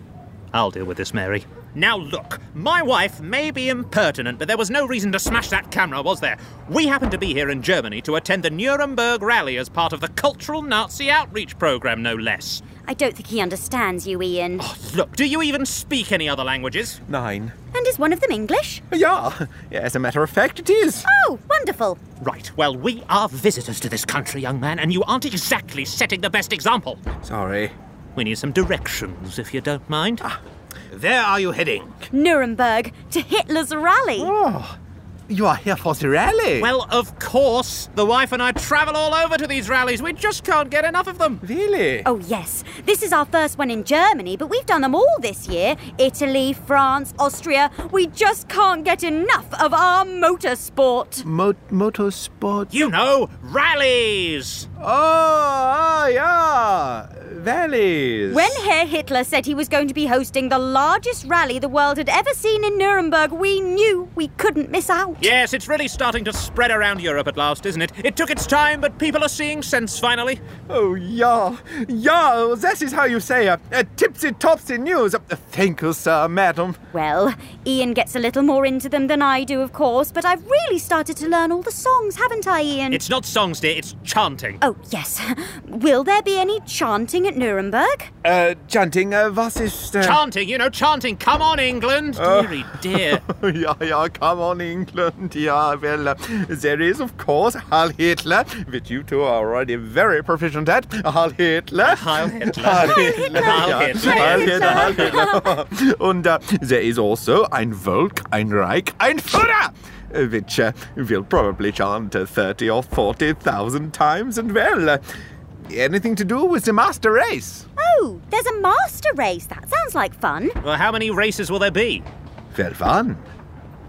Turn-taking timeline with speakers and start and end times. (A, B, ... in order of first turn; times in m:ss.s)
0:00.5-0:12.6 A
0:12.8-0:14.6 B
0:14.6-0:17.0 A
0:17.1-0:17.5 C
0:17.7-0:18.8 B
0:18.9-0:21.1 C
0:21.1-0:22.0 B
0:22.2-0:27.0 A
0:27.2-0:27.7 C
0:28.2-0:30.2 A
0:30.9-0:32.0 C
0:32.1-0:34.3 B
0:34.2-0:34.8 C
0:35.3-0:36.7 C
0:36.6-0:41.4 A
0:41.4-0:42.1 C
0:42.0-0:51.2 B
0:51.2-0:52.8 C
0:52.7-0:54.7 A
0:54.8-0:58.6 C
0:58.3-1:05.3 B
1:05.2-1:10.4 A
1:10.7-1:16.8 C
1:16.9-1:23.0 B
1:22.9-1:24.6 A
1:24.6-1:28.1 B
1:28.2-1:30.2 C
1:30.0-1:33.2 A
1:32.1-1:55.0 C
1:41.8-1:45.2 A
1:42.8-1:45.5 B
1:55.7-1:57.7 C
1:57.8-2:00.5 B
2:00.6-2:02.1 A
2:02.5-2:03.2 C